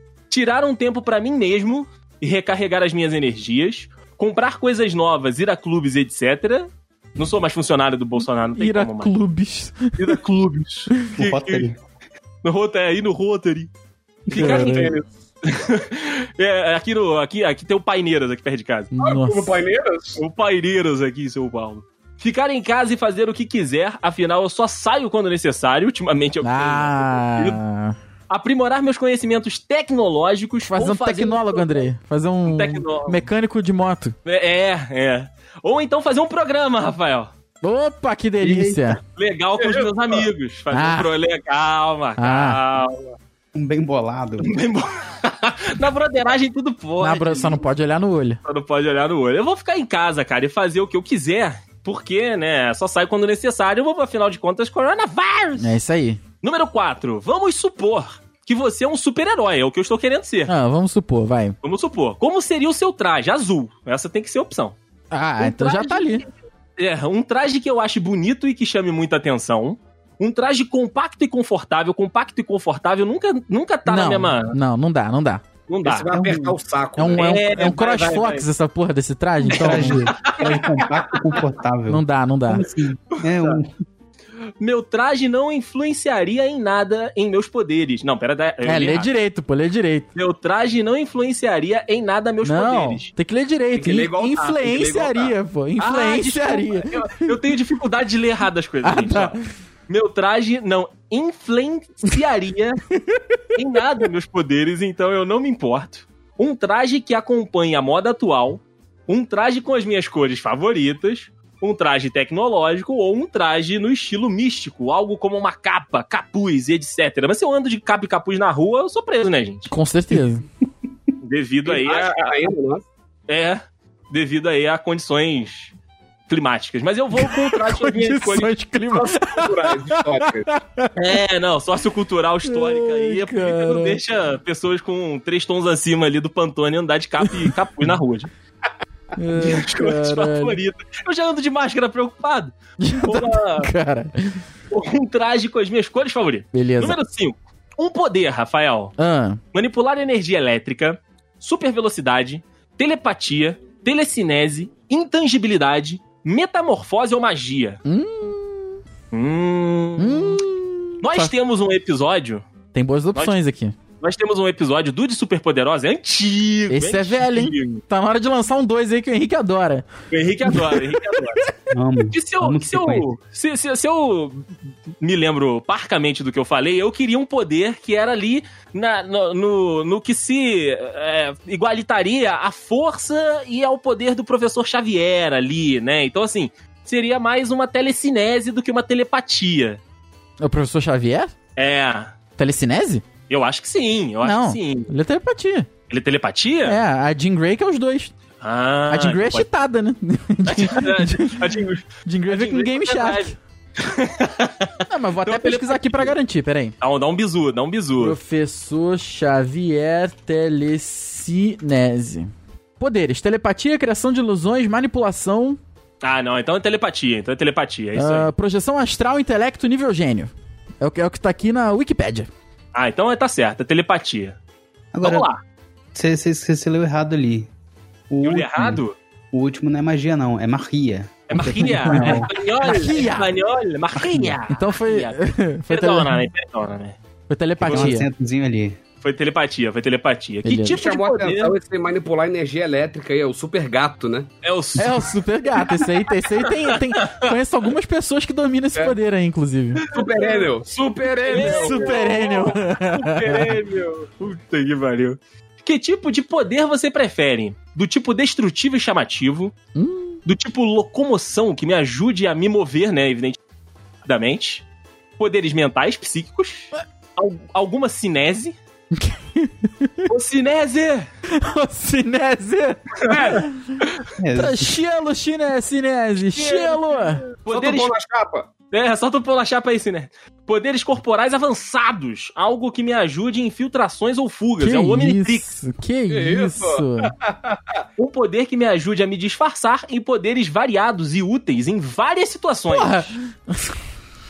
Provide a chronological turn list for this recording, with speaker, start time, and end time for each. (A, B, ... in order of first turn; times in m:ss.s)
0:00.3-0:09.1 A
0:08.6-0:10.1 B
0:10.0-0:11.7 A
0:11.1-0:11.8 C
0:12.4-0:13.7 A
0:14.3-0:18.9 A
0:14.3-0:15.1 D
0:14.3-0:14.9 B
0:18.9-0:19.6 B
0:19.0-0:20.2 D
0:20.2-0:27.6 A
0:26.4-0:28.0 B
0:28.3-0:31.8 A
0:30.6-0:34.1 B
0:32.5-0:33.2 A
0:34.2-0:37.3 A
0:37.6-0:39.0 B
0:38.4-0:39.0 C
0:39.2-0:43.1 A
0:39.6-0:40.3 D
0:40.7-0:41.1 B
0:42.2-0:42.6 B
0:43.5-0:44.5 C
0:44.4-0:47.6 A
0:47.0-0:48.4 B
0:48.4-0:55.7 A
0:55.6-0:56.2 B
0:56.4-1:00.5 A
1:00.5-1:01.6 B
1:01.6-1:04.8 A
1:05.1-1:06.2 B
1:05.4-1:14.6 A
1:13.9-1:15.4 B
1:15.7-1:16.1 A
1:15.8-1:17.3 D
1:16.1-1:16.6 C
1:17.0-1:20.1 B
1:17.2-1:18.4 A
1:19.4-1:21.4 A
1:19.5-1:23.7 C
1:21.9-1:22.6 B
1:23.1-1:23.6 A
1:24.6-1:29.1 A
1:28.6-1:30.1 B
1:30.1-1:33.1 A
1:32.4-1:37.3 B
1:33.8-1:35.3 D
1:35.8-1:42.8 A
1:38.8-1:39.4 B
1:42.9-1:43.2 B
1:43.5-1:59.7 A
1:59.7-2:00.4 B
2:01.2-2:02.3 A
2:01.6-2:02.8 D
2:03.3-2:05.7 A
2:06.3-2:08.5 A
2:07.2-2:11.0 B
2:08.9-2:10.5 D
2:11.0-2:18.3 A
2:12.4-2:14.0 B
2:17.2-2:17.5 B
2:19.2-2:20.6 B
2:19.4-2:23.7 A
2:22.8-2:24.4 B
2:24.7-2:28.9 A
2:26.5-2:27.0 B
2:29.0-2:29.4 B
2:29.5-2:37.8 A
2:37.8-2:38.8 B
2:39.1-2:40.4 A
2:40.0-2:41.3 B
2:41.0-2:42.4 A
2:42.7-2:43.7 B
2:44.0-2:47.8 A
2:46.7-2:49.9 B
2:50.1-2:51.5 A
2:50.5-2:51.2 B
2:51.7-2:53.1 C
2:52.1-3:09.8 A
3:10.4-3:11.3 B
3:11.6-3:12.1 A
3:12.4-3:13.0 B
3:13.3-3:14.9 A
3:14.2-3:15.7 B
3:15.9-3:16.8 A
3:16.6-3:18.1 B
3:18.4-3:19.4 A
3:18.9-3:23.4 B
3:20.5-3:26.1 A
3:24.9-3:26.7 B
3:26.8-3:28.2 A
3:28.0-3:35.6 B
3:36.0-3:38.3 A
3:38.0-3:42.3 B
3:42.7-3:44.4 A
3:44.9-3:45.3 C
3:45.0-3:45.4 A
3:45.9-3:47.5 C
3:48.1-3:52.3 C
3:48.2-3:48.9 A
3:51.3-3:57.0 A
3:51.9-3:53.3 B
3:54.2-3:56.2 B
3:57.3-3:58.1 B
3:57.6-3:57.9 A
3:57.6-3:58.8 C
3:59.0-4:01.5 A
4:00.4-4:00.8 B
4:00.7-4:04.3 D
4:04.4-4:07.3 A
4:04.8-4:09.8 B
4:09.8-4:10.5 A
4:09.9-4:12.0 D
4:11.2-4:19.5 A
4:11.3-4:13.5 B
4:19.8-4:20.2 B
4:20.2-4:23.4 A
4:24.0-4:24.6 A
4:25.2-4:28.5 A
4:28.9-4:30.1 B
4:30.1-4:31.1 A
4:31.3-4:32.8 B
4:33.0-4:33.5 D
4:34.2-4:34.8 C
4:34.3-4:37.2 B
4:36.2-4:37.9 A
4:37.5-4:38.5 D
4:38.7-4:45.4 A
4:44.6-4:47.1 B
4:46.1-4:47.8 D
4:48.0-4:53.1 A
4:52.7-4:53.8 B